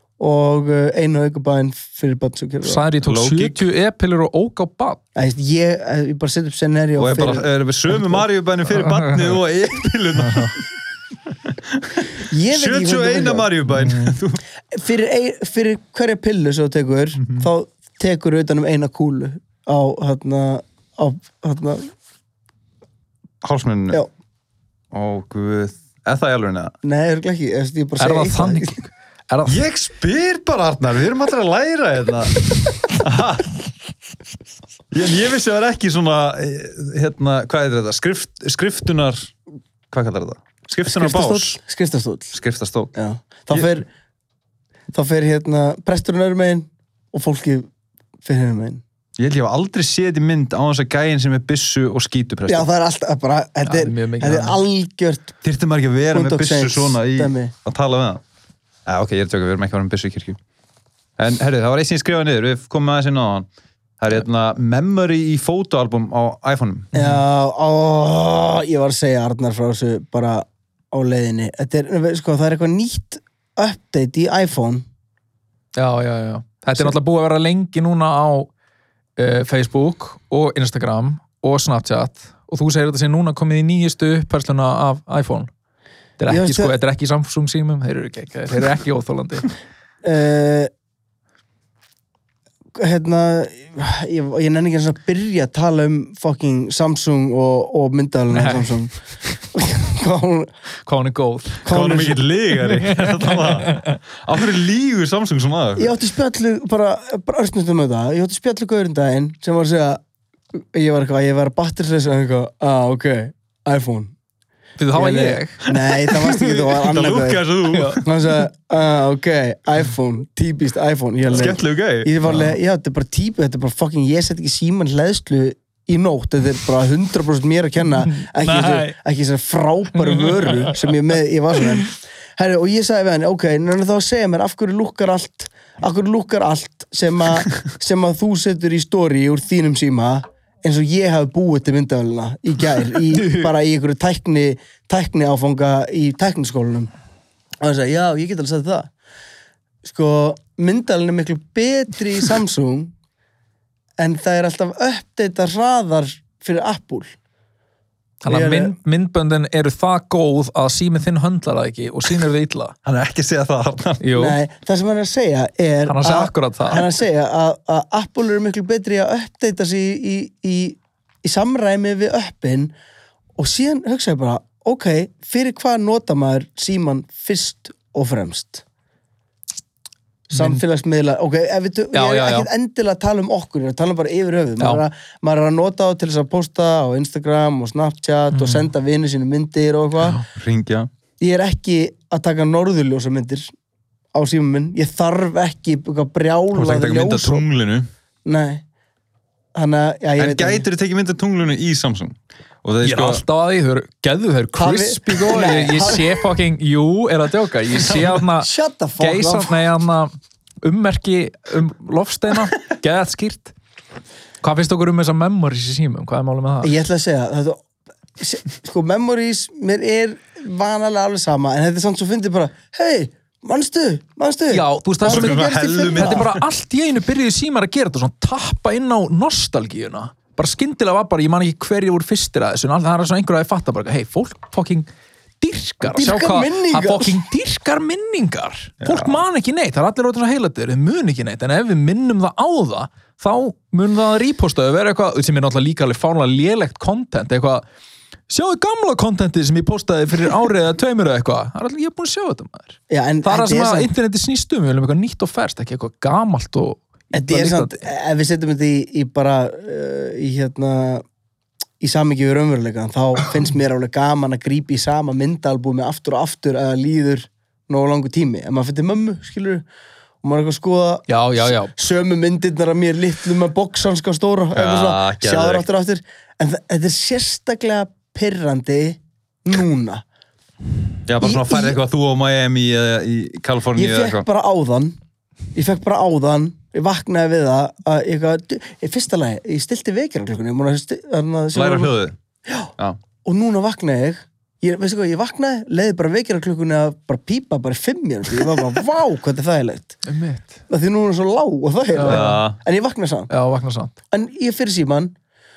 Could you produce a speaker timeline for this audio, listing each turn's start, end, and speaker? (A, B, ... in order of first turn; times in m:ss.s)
0:00.2-0:02.8 A
0:02.6-0:05.0 B
0:03.0-0:03.7 C
0:05.2-0:07.5 A
0:07.0-0:10.7 C
0:08.7-0:09.4 B
0:10.2-0:10.5 B
0:11.7-0:14.4 C
0:12.3-0:13.5 A
0:13.7-0:14.2 B
0:14.7-0:21.9 A
0:23.4-0:24.0 C
0:24.9-0:26.7 C
0:26.8-0:28.8 A
0:28.0-0:29.6 B
0:29.5-0:33.7 C
0:34.9-0:39.3 C
0:39.9-0:41.6 C
0:40.9-0:42.4 A
0:42.3-0:42.9 C
0:43.0-0:43.9 A
0:44.9-0:47.7 A
0:48.2-0:48.8 A
0:49.2-0:52.7 C
0:52.5-0:55.3 A
0:53.6-0:54.6 B
0:55.4-0:58.2 C
0:56.1-0:57.5 A
0:58.9-1:00.4 C
1:01.2-1:03.5 C
1:04.0-1:06.9 C
1:06.9-1:07.2 B
1:06.9-1:14.9 A
1:15.8-1:18.5 B
1:19.2-1:25.5 B
1:26.2-1:29.5 B
1:26.3-1:26.7 A
1:30.0-1:30.7 A
1:32.8-1:39.0 A
1:38.3-1:38.7 B
1:39.5-1:40.5 A
1:40.9-1:41.7 B
1:41.7-1:42.2 A
1:41.7-1:45.9 C
1:42.6-1:44.0 B
1:45.8-1:50.0 A
1:50.6-1:54.1 A
1:54.8-1:55.6 B
1:54.9-2:26.9 A
1:56.1-1:58.0 C
1:57.7-1:58.0 B
2:01.3-2:02.1 C
2:02.3-2:02.5 B
2:08.0-2:09.0 B
2:10.0-2:11.0 B
2:23.1-2:23.5 B
2:27.6-2:28.9 A
2:29.8-2:32.9 A
2:34.0-2:37.2 A
2:38.2-2:42.8 B
2:38.3-2:38.8 A
2:42.9-2:44.0 C
2:44.0-2:44.4 B
2:44.2-2:52.7 A
2:45.9-2:46.9 B
2:53.4-2:58.6 A
3:00.3-3:10.2 A
3:00.3-3:00.6 B
3:01.9-3:02.5 B
3:08.3-3:08.7 B
3:10.3-3:10.9 C
3:11.2-3:13.5 A
3:14.1-3:17.4 A
3:16.5-3:17.9 C
3:18.3-3:18.6 A
3:19.6-3:20.6 A
3:20.2-3:23.2 C
3:22.8-3:28.5 B
3:24.6-3:26.2 A
3:27.8-3:28.2 C
3:28.4-3:29.6 A
3:29.0-3:33.5 B
3:34.4-3:36.8 B
3:36.6-3:37.6 A
3:38.2-3:46.3 A
3:44.5-3:54.9 B
3:45.1-3:46.4 C
3:55.4-4:07.6 B
3:55.8-3:57.2 A
3:58.8-3:59.2 C
4:08.3-4:17.8 B
4:12.9-4:13.9 A
4:17.1-4:21.0 A
4:21.8-4:29.6 A
4:30.2-4:40.0 A
4:31.1-4:31.8 B
4:34.5-4:35.6 C
4:41.1-4:44.2 C
4:41.2-4:41.8 A
4:43.8-4:45.0 A
4:45.6-4:51.9 A
4:51.6-4:52.2 C
4:53.2-5:00.0 A
5:00.0-5:00.6 B
5:00.7-5:03.3 A
5:02.0-5:02.4 B
5:02.0-5:02.6 C
5:03.3-5:03.9 B
5:04.1-5:05.1 A